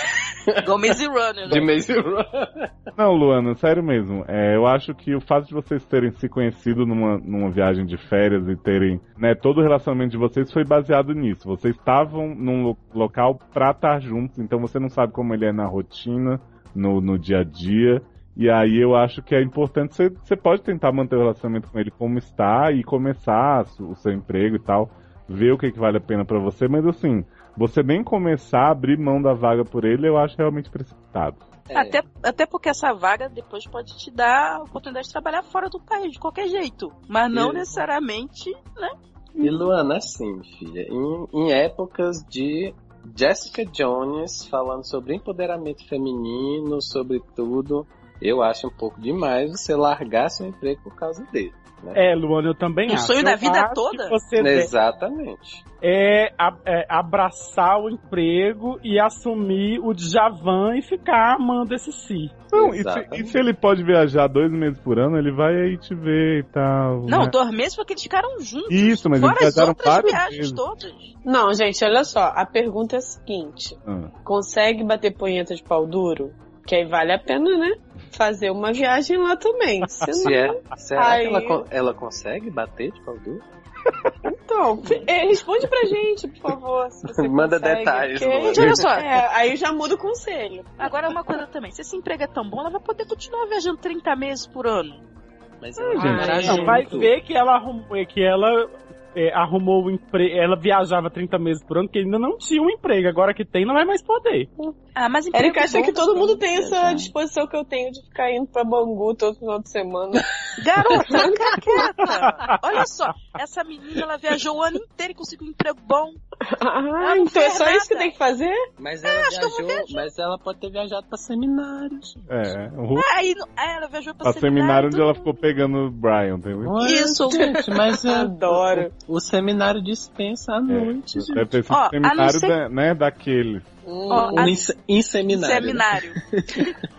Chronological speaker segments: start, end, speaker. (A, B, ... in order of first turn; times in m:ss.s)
0:00.6-0:01.7 A
0:01.5-0:02.7 B
0:03.0-0:31.4 C
0:31.7-0:32.0 B
0:31.7-0:39.0 A
0:37.3-0:37.7 B
0:39.4-0:52.0 B
0:51.9-0:54.7 D
0:52.9-0:54.2 A
0:54.4-0:55.6 B
0:55.8-1:02.5 D
1:02.5-1:03.4 B
1:02.5-1:07.4 C
1:07.1-1:11.1 A
1:08.7-1:10.6 C
1:11.2-1:21.7 E
1:13.9-1:14.1 C
1:20.2-1:23.4 B
1:24.2-1:30.9 E
1:27.1-1:28.8 B
1:28.5-1:29.1 A
1:30.8-1:35.0 A
1:35.6-1:37.1 B
1:35.9-1:36.8 E
1:36.0-1:36.5 C
1:36.0-1:36.8 A
1:36.0-1:44.5 D
1:45.0-1:47.1 A
1:45.3-1:50.3 E
1:50.6-1:56.2 A
1:50.9-1:51.9 E
1:52.0-1:52.6 D
1:56.5-1:58.6 E
1:57.0-1:58.1 A
1:58.8-2:02.2 B
1:59.0-2:00.1 A
2:02.3-2:03.1 C
2:03.0-2:05.4 A
2:04.2-2:06.8 C
2:06.6-2:11.5 B
2:06.8-2:07.6 A
2:07.3-2:08.9 E
2:10.7-2:13.7 C
2:11.7-2:12.6 A
2:13.8-2:16.8 B
2:14.1-2:14.6 A
2:14.1-2:14.5 E
2:15.3-2:16.2 A